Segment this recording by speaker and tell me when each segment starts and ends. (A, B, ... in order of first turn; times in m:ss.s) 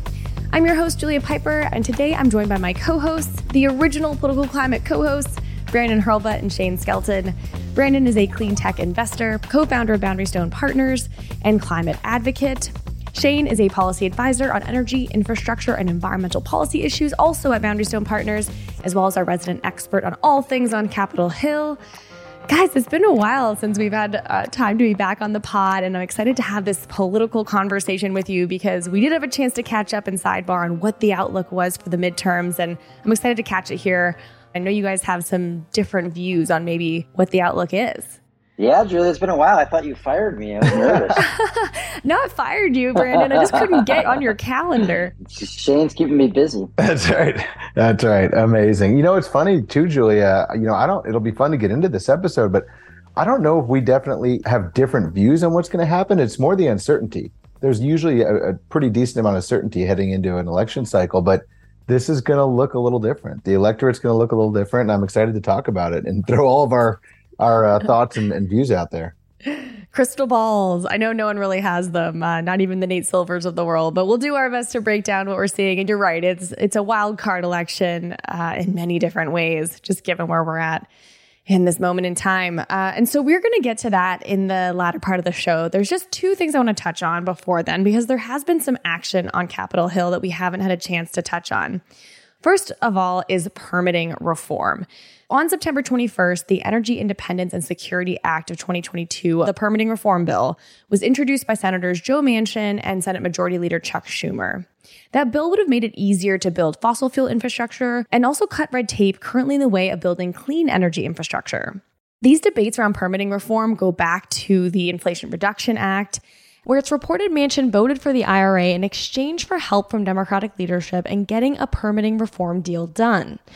0:00.5-0:21.8 A
0:22.5-0:38.2 A
0:38.6-0:41.2 B
0:40.7-0:41.2 C
0:41.2-0:45.1 A
0:43.0-0:44.2 B
0:45.2-0:46.7 B
0:46.8-0:52.6 C
0:53.2-1:09.1 C
1:09.6-1:20.9 A
1:21.5-1:31.8 A
1:32.4-2:03.4 A